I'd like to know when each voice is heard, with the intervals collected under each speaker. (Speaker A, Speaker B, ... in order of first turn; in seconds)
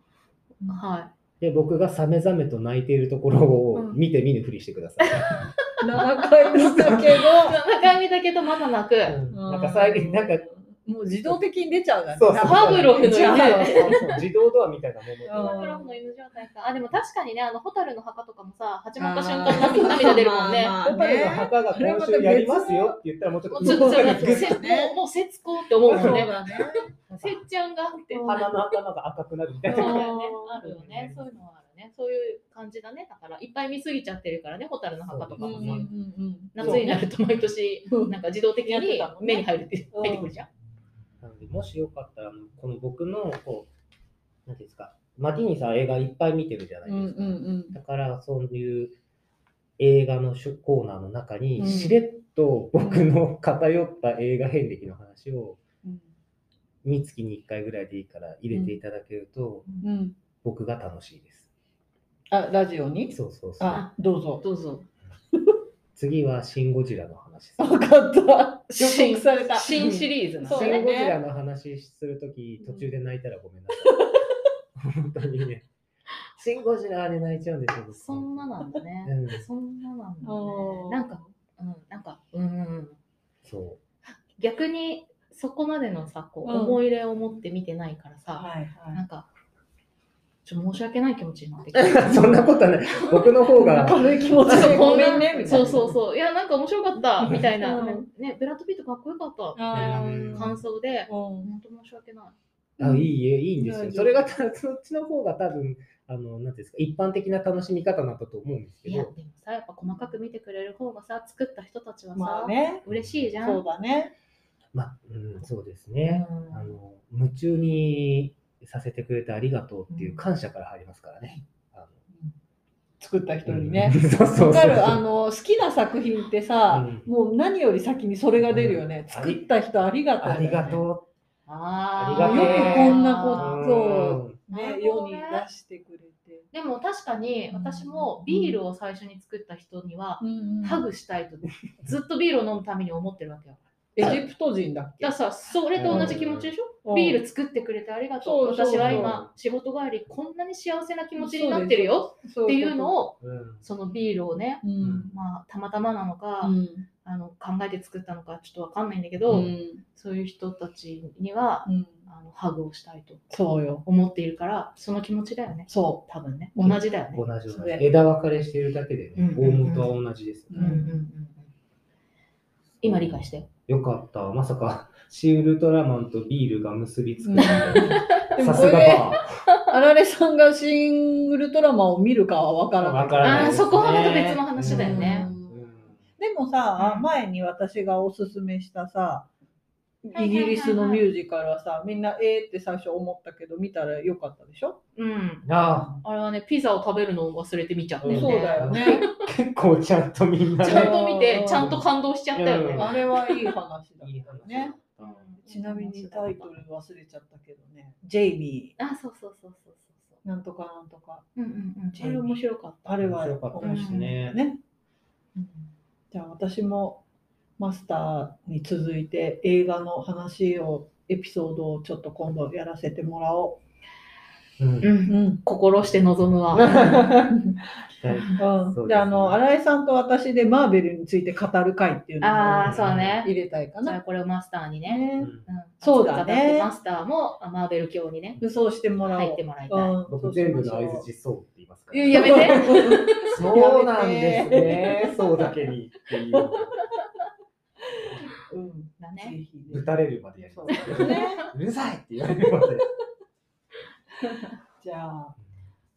Speaker A: 0.6-1.1, 5.2-5.5, 6.5-9.2, 12.4-14.0, 15.4-20.8, 23.5-28.5, 29.7-35.9, 36.5-40.5, 63.7-64.9, 68.7-70.8, 77.9-83.0, 84.3-89.3, 90.4-93.4, 94.4-102.3, 108.8-113.6, 116.0-116.8, 119.9-120.2, 131.4-133.6, 134.5-135.4, 136.5-144.2, 145.0-163.2, 163.8-167.2, 169.2-169.9, 170.6-171.5, 172.8-173.5, 177.4-178.4, 179.4-179.7, 183.2-185.3, 186.8-187.1, 190.1-191.1, 194.9-195.5, 196.0-199.1, 200.6-203.5, 205.0-206.5, 208.8-210.2, 211.3-213.0, 213.6-214.2, 215.3-215.7, 224.8-227.1, 228.1-228.4, 232.2-238.4, 239.0-240.0, 242.1-243.3, 249.0-249.4, 250.7-251.4
Speaker B: 1.4-5.4, 9.1-10.4, 12.1-15.6, 20.8-24.6, 25.9-26.3, 27.1-27.4, 28.2-30.1, 30.6-31.3, 35.0-35.9, 36.6-37.0, 41.2-43.7, 44.5-49.0, 49.8-55.6, 56.8-59.6, 60.4-61.5, 63.1-63.8, 65.9-67.8, 70.5-73.9, 74.8-75.7, 76.4-79.4, 83.4-83.8, 91.7-95.5, 99.7-100.6, 102.8-109.1, 112.8-113.3, 114.7-121.9, 123.5-125.0, 126.7-127.0, 128.4-129.4, 130.2-131.1, 131.9-134.4, 145.8-146.5, 148.7-149.3, 153.2-153.6, 154.8-155.1, 167.1-170.8, 172.8-179.3, 182.8-186.0, 195.4-196.0, 198.0-203.0, 204.0-205.3, 213.0-214.4, 224.6-224.9, 226.5-227.3, 227.9-229.4, 232.6-233.2, 235.2-235.4, 240.1-246.7, 249.7-252.9
Speaker C: 3.7-4.0, 5.8-7.6, 9.3-14.2, 15.2-15.9, 19.0-23.0, 23.5-25.0, 25.8-26.9, 28.1-28.5, 29.6-30.6, 35.4-37.0, 37.9-40.3, 46.8-47.8, 51.6-52.0, 52.8-53.1, 58.5-58.8, 59.8-60.1, 62.3-64.4, 67.6-71.2, 72.6-72.9, 73.8-74.2, 80.2-81.3, 86.4-86.8, 88.3-89.0, 93.5-96.0, 97.6-98.1, 99.5-101.5, 102.8-104.2, 112.1-112.8, 113.4-114.1, 123.0-130.8, 132.1-136.5, 137.5-138.6, 140.2-140.9, 143.9-145.1, 145.8-146.2, 146.8-147.2, 148.2-149.2, 151.2-152.9, 154.6-155.1, 156.4-156.9, 159.3-159.8, 161.6-162.1, 163.3-163.8, 165.7-166.8, 167.5-167.9, 170.5-170.9, 177.2-183.6, 184.6-185.6, 186.2-189.3, 190.0-194.8, 198.0-199.1, 200.6-201.8, 202.7-204.8, 205.4-208.7, 210.2-211.2, 211.9-214.6, 216.1-217.0, 217.6-223.6, 225.1-225.4, 226.8-227.6, 228.4-234.0, 234.8-236.7, 238.4-241.1, 241.9-245.6, 246.3-246.7, 247.9-251.4, 254.8-255.3